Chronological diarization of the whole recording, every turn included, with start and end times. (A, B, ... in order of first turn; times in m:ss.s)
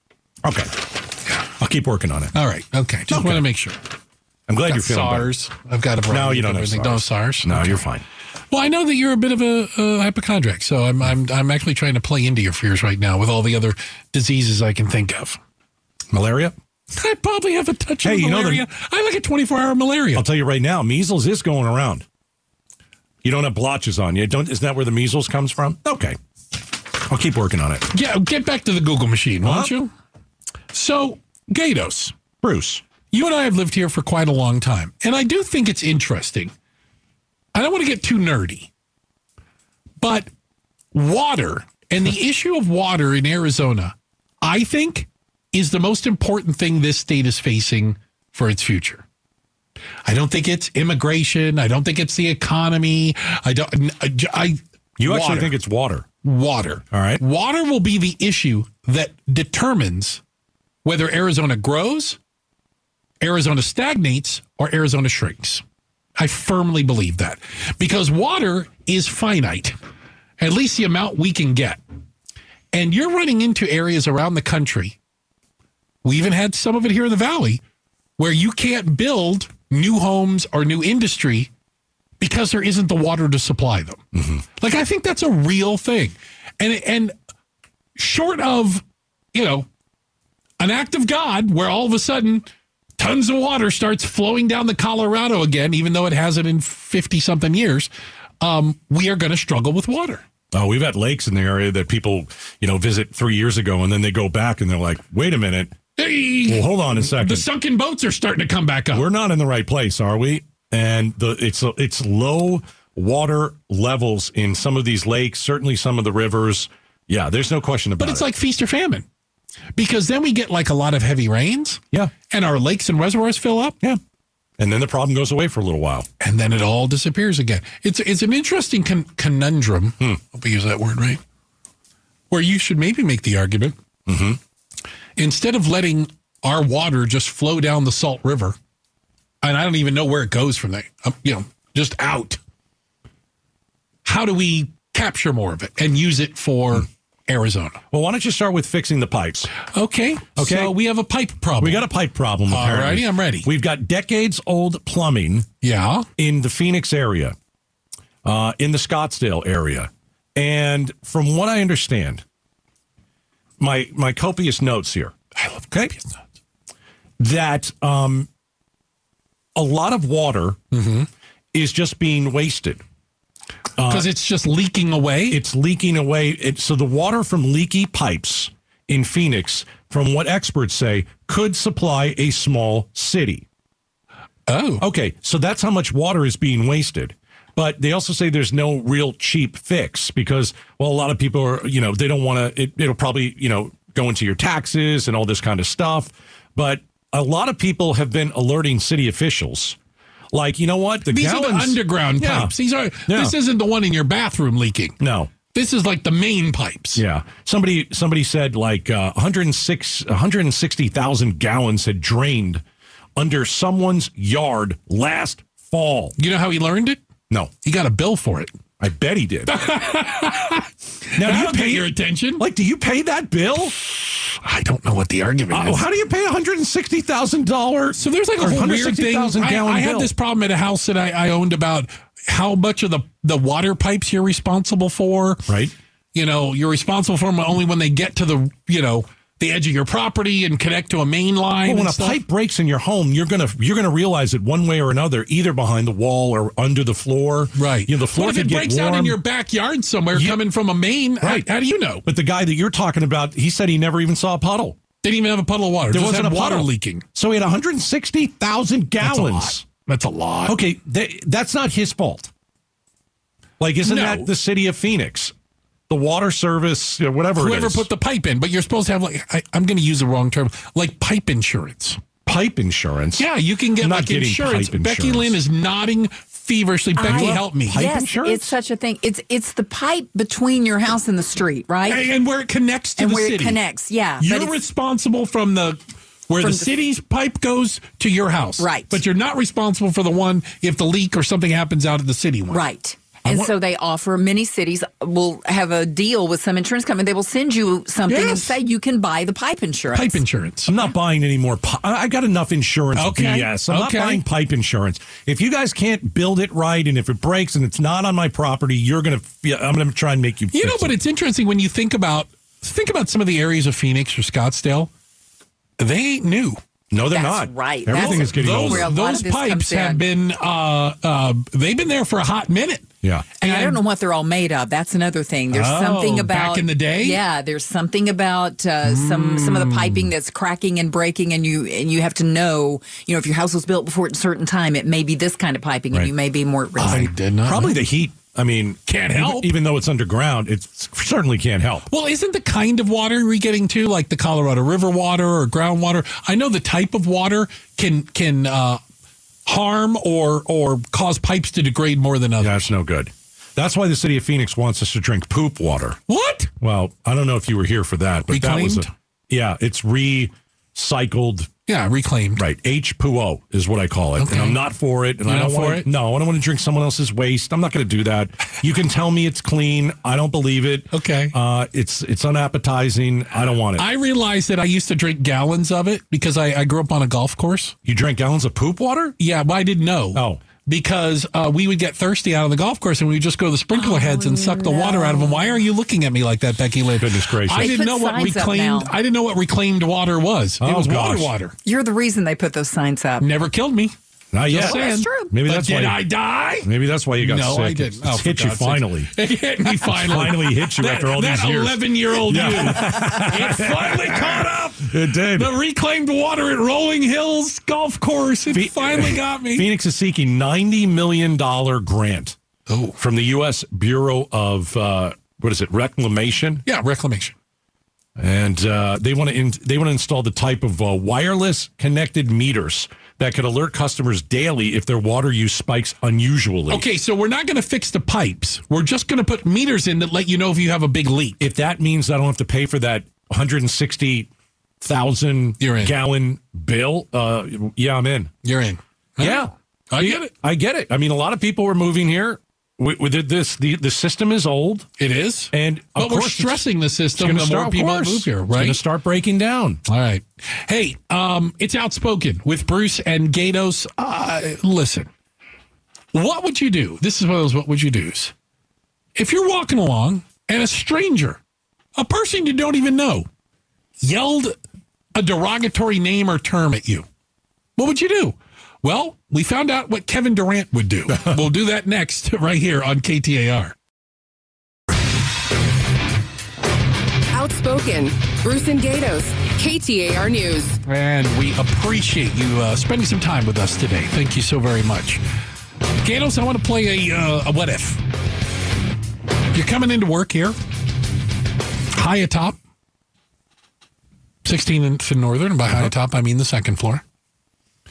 0:00.4-0:00.9 A
0:01.5-0:02.4 A
0:02.4-0:03.8 B
0:03.1-0:03.5 A
0:04.5-0:05.3 A
0:04.7-0:07.8 B
0:06.1-0:08.0 A
0:08.5-0:15.4 B
0:16.1-0:16.6 A
0:16.9-0:20.2 B
0:18.0-0:18.7 A
0:20.2-0:22.0 A
0:23.2-0:26.2 A
0:27.0-0:27.9 A
0:27.9-0:29.9 B
0:29.4-0:29.7 A
0:30.7-0:32.1 B
0:32.4-0:32.8 A
0:33.1-0:36.5 B
0:37.5-0:38.7 B
0:40.0-0:40.3 B
0:40.9-0:49.0 B
0:50.1-0:55.6 B
0:55.0-0:56.0 A
0:56.2-1:00.2 B
0:56.9-0:57.2 A
1:00.8-1:02.2 B
1:03.2-1:05.6 B
1:06.2-1:09.8 B
1:10.4-1:11.8 B
1:12.7-1:15.0 B
1:16.0-1:17.6 B
1:18.2-1:21.5 B
1:22.2-1:24.0 B
1:24.1-1:24.4 A
1:24.6-1:27.1 B
1:28.0-1:28.8 B
1:29.3-1:29.7 B
1:30.6-1:32.4 B
1:33.0-1:37.9 B
1:38.4-1:40.2 B
1:40.5-1:45.8 A
1:46.0-1:49.1 B
1:46.4-1:47.5 A
1:48.9-1:58.3 A
1:58.0-1:59.0 B
1:59.8-2:03.8 B
2:04.6-2:06.1 A
2:06.2-2:11.2 B
2:12.3-2:13.8 B
2:14.1-2:14.4 A
2:15.2-2:18.6 B
2:19.4-2:22.4 B
2:24.0-2:27.8 B
2:27.9-2:29.5 A
2:29.7-2:31.9 B
2:30.4-2:30.8 A
2:31.6-2:35.5 A
2:32.5-2:33.5 B
2:35.6-2:36.1 B
2:36.2-2:37.4 A
2:38.2-2:42.2 A
2:43.6-2:45.2 A
2:45.4-2:46.2 B
2:45.7-2:46.0 A
2:47.2-2:48.3 A
2:49.6-2:50.6 A
2:50.7-2:51.1 B
2:51.5-2:52.8 A
2:53.8-2:54.1 A
2:53.9-2:55.4 B
2:55.3-3:03.5 A
3:04.5-3:04.8 B
3:04.8-3:19.8 A
3:20.3-3:22.5 A
3:21.1-3:25.0 B
3:23.1-3:23.3 A
3:25.0-3:25.3 A
3:25.5-3:27.0 B
3:27.0-3:32.6 A
3:33.2-3:36.2 A
3:36.2-3:37.0 B
3:37.6-3:38.5 B
3:38.8-3:39.6 A
3:39.5-3:42.4 B
3:41.1-3:43.8 A
3:44.4-3:45.8 B
3:45.5-3:50.1 A
3:48.0-3:55.5 B
3:55.5-3:55.7 A
3:56.1-4:02.2 B
4:01.6-4:09.2 A
4:07.6-4:12.0 B
4:11.2-4:11.5 A
4:12.0-4:14.8 A
4:15.0-4:17.0 B
4:15.9-4:19.6 A
4:19.0-4:20.6 B
4:20.5-4:22.3 A
4:23.6-4:25.3 A
4:23.8-4:24.3 B
4:25.9-4:27.9 A
4:27.4-4:32.0 B
4:32.3-4:33.3 A
4:33.2-4:37.8 B
4:33.8-4:35.4 A
4:37.0-4:42.1 C
4:37.1-4:38.5 A
4:41.8-4:43.6 B
4:43.0-4:44.5 C
4:44.2-4:52.6 B
4:46.4-4:46.7 C
4:48.6-4:49.0 C
4:52.5-5:00.2 C
4:53.3-4:53.5 B
4:58.1-4:58.6 B
4:59.9-5:00.8 B
5:00.7-5:10.9 A
5:03.0-5:04.2 B
5:10.5-5:14.9 B
5:15.8-5:16.6 B
5:16.9-5:18.9 A
5:17.1-5:20.0 C
5:17.9-5:22.9 B
5:23.4-5:23.8 B
5:23.4-5:37.1 C
5:25.5-5:27.2 B
5:28.8-5:30.1 B
5:36.8-5:37.8 B
5:36.9-5:41.9 A
5:38.9-5:39.5 B
5:41.9-5:48.8 B
5:49.5-5:52.6 B
5:52.4-5:56.0 A
5:56.1-5:56.5 B
5:56.6-6:01.5 A
5:58.3-5:58.9 B
6:01.7-6:02.4 B
6:02.4-6:13.9 A
6:04.2-6:04.6 B
6:05.2-6:05.9 B
6:10.9-6:11.4 B
6:13.8-6:17.8 B
6:17.8-6:19.2 A
6:19.2-6:31.6 B
6:20.1-6:20.4 A
6:23.7-6:25.6 C
6:27.0-6:27.8 A
6:27.5-6:28.9 C
6:30.6-6:31.3 A
6:31.6-6:33.3 C
6:33.2-6:33.9 B
6:34.3-6:36.0 A
6:34.5-6:49.7 B
6:34.6-6:35.3 C
6:36.6-6:39.1 A
6:39.8-6:45.6 A
6:48.5-6:52.4 A
6:52.7-6:53.0 B
6:53.0-6:56.6 A
6:56.7-6:57.3 B
6:58.2-7:06.9 A
7:06.7-7:11.4 B
7:11.4-7:14.3 A
7:14.8-7:18.3 A
7:15.6-7:16.0 B
7:18.4-7:20.3 B
7:19.2-7:24.9 A
7:25.0-7:28.8 B
7:25.5-7:29.8 A
7:29.9-7:35.1 B
7:36.1-7:38.3 B
7:39.2-7:41.4 B
7:42.0-7:43.3 B
7:44.0-7:44.6 B
7:45.2-7:47.1 B
7:47.8-7:53.7 B
7:57.3-8:00.8 D
8:00.9-8:05.2 B
8:06.0-8:08.0 B
8:09.5-8:10.6 B
8:11.9-8:12.6 B
8:14.4-8:17.0 B